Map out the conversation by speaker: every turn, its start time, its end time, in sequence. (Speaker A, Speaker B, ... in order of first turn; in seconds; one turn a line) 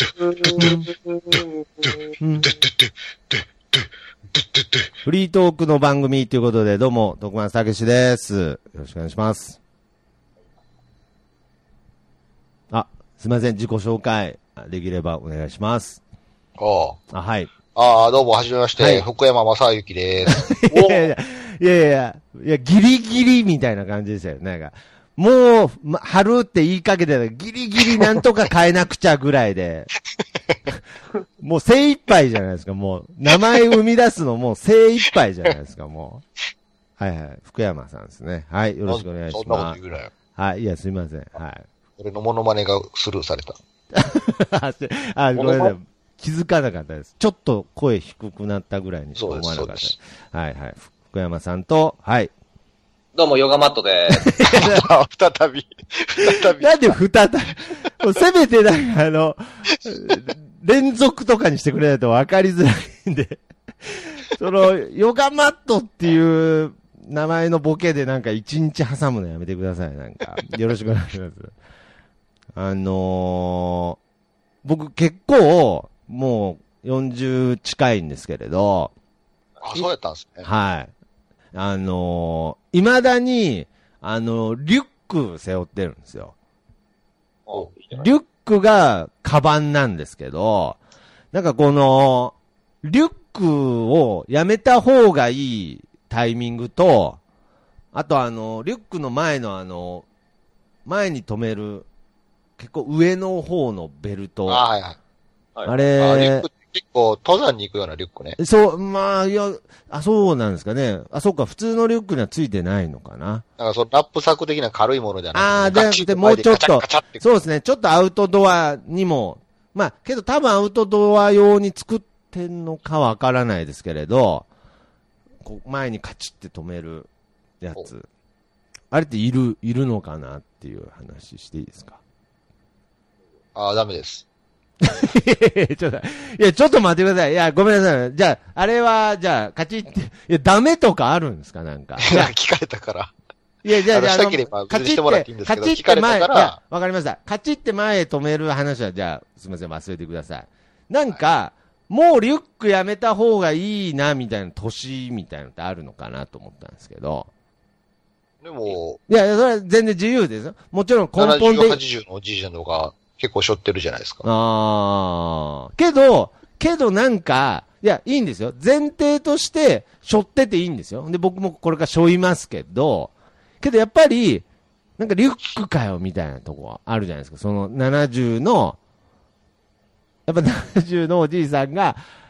Speaker A: 0.5-0.9
Speaker A: 2.2-2.5
Speaker A: 5.0-9.6
Speaker A: 12.7-16.0
Speaker B: 16.6-17.0
Speaker A: 17.1-17.5
Speaker B: 17.7-20.5
Speaker A: 18.8-19.1
Speaker A: 20.3-29.9
Speaker C: 20.7-21.1
Speaker A: 31.4-36.2
Speaker A: 37.0-39.8
Speaker B: 38.9-40.1
Speaker A: 40.3-41.6
Speaker B: 42.0-43.6
Speaker A: 43.9-52.3
Speaker C: 45.4-45.7
Speaker B: 49.1-49.9
Speaker C: 53.1-54.3
Speaker A: 54.1-54.8
Speaker B: 54.4-57.0
Speaker A: 56.6-71.5
Speaker A: 72.5-74.0
Speaker A: 74.6-78.9
Speaker B: 79.6-80.5
Speaker A: 80.4-80.9
Speaker A: 81.5-86.3
Speaker C: 87.5-88.0
Speaker A: 87.9-90.8
Speaker A: 91.3-97.2
Speaker A: 97.9-100.0
Speaker A: 100.8-101.9
Speaker A: 102.6-104.6
Speaker B: 104.5-105.0
Speaker A: 105.7-106.5
Speaker B: 106.0-108.4
Speaker A: 108.4-113.4
Speaker B: 113.6-117.2
Speaker A: 115.3-124.5
Speaker A: 125.4-127.1
Speaker A: 127.6-128.1
Speaker A: 128.9-132.0
Speaker B: 133.5-134.2
Speaker A: 134.8-142.3
Speaker B: 142.0-143.1
Speaker A: 143.6-157.3
Speaker B: 143.7-146.6
Speaker B: 158.4-159.0
Speaker A: 159.1-161.8
Speaker B: 161.2-164.2
Speaker A: 164.2-174.4
Speaker A: 175.0-178.8
Speaker A: 180.3-182.0